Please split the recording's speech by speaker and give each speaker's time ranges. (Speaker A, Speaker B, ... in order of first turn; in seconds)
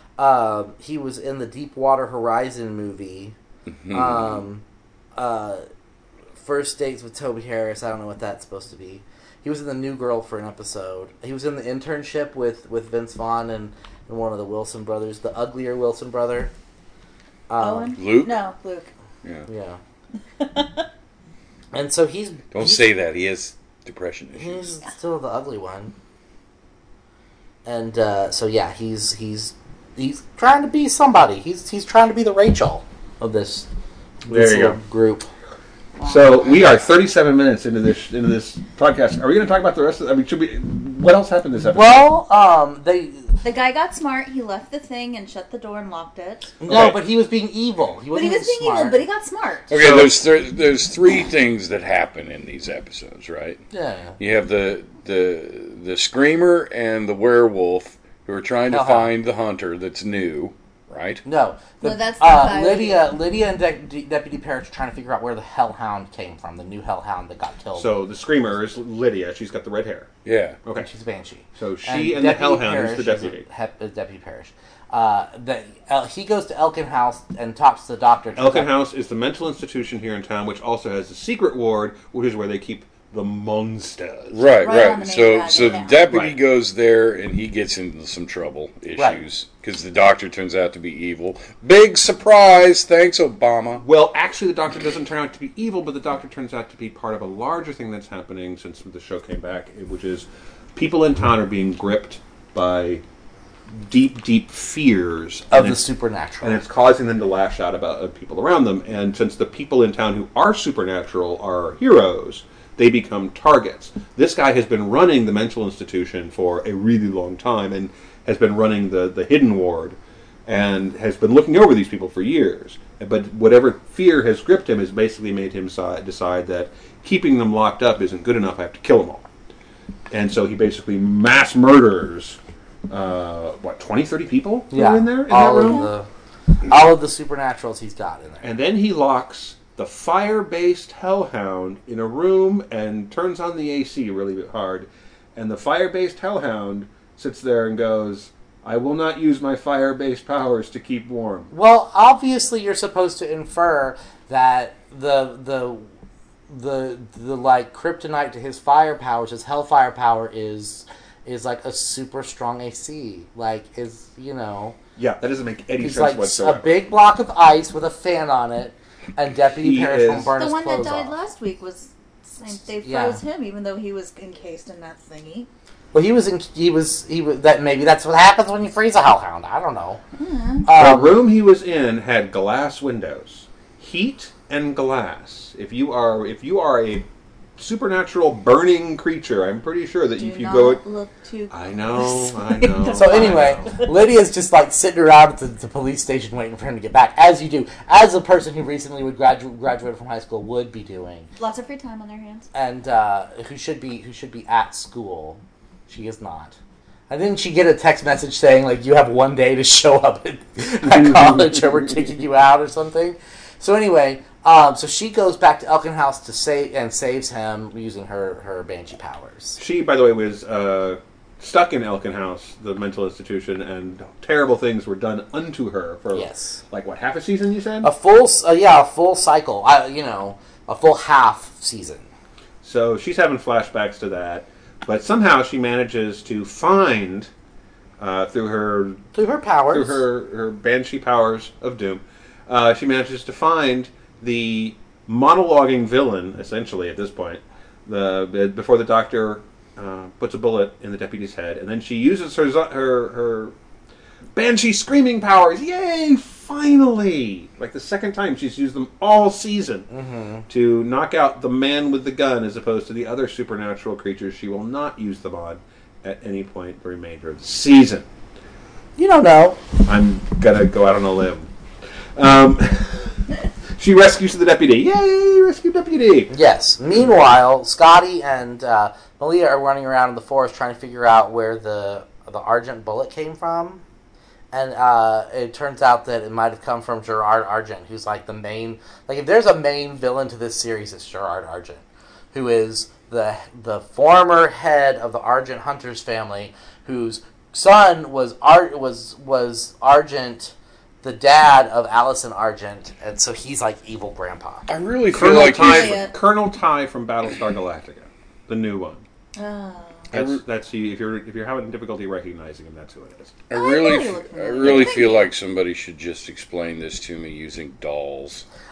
Speaker A: 0.2-3.4, 3.9-4.6, 5.2-5.7, 6.4-16.5, 17.5-18.0, 19.5-19.8, 21.7-22.9, 24.4-25.9, 27.6-33.7, 34.3-35.3, 41.6-43.3, 46.6-49.0, 53.7-54.2, 58.7-59.1, 61.2-67.9, 70.8-78.7, 105.5-106.6, 134.7-136.1, 136.7-138.6, 151.5-155.9, 156.5-164.8, 165.8-171.1, 172.8-173.2, 175.9-180.0, 180.7-181.2, 192.9-201.3, 202.5-206.6, 207.1-219.6, 226.1-226.6, 227.8-232.1, 239.1-240.0, 259.9-260.5, 269.0-269.6, 276.3-283.8, 284.5-304.7
Speaker B: 3.7-4.4, 18.0-18.4, 22.5-24.7, 49.7-53.6, 54.2-61.2, 70.2-70.6, 84.3-93.8, 304.7-306.1, 310.1-310.4, 313.5-318.5
Speaker C: 17.6-18.9, 20.4-20.8, 36.0-36.8, 43.4-46.6, 48.1-49.7, 61.8-63.1, 84.6-86.0, 135.5-135.9, 170.3-175.5, 180.2-180.7, 190.2-193.9, 201.4-202.5, 305.2-306.1, 309.4-310.1, 313.5-315.3
Speaker D: 34.3-34.8, 36.0-42.1, 46.7-47.0, 49.7-50.2, 67.8-70.1, 71.5-73.5, 78.4-84.4, 86.1-86.4, 93.8-103.0, 103.8-105.8, 106.4-129.3, 130.1-132.4, 132.9-135.9, 138.4-151.5, 165.0-166.8, 169.6-170.3, 180.7-190.8, 191.5-193.8, 219.6-227.9, 232.6-237.3, 238.0-239.0, 239.7-253.5, 254.3-259.9, 260.5-268.1, 269.9-271.5, 272.2-273.2, 273.8-276.3, 305.1-309.0, 310.1-313.4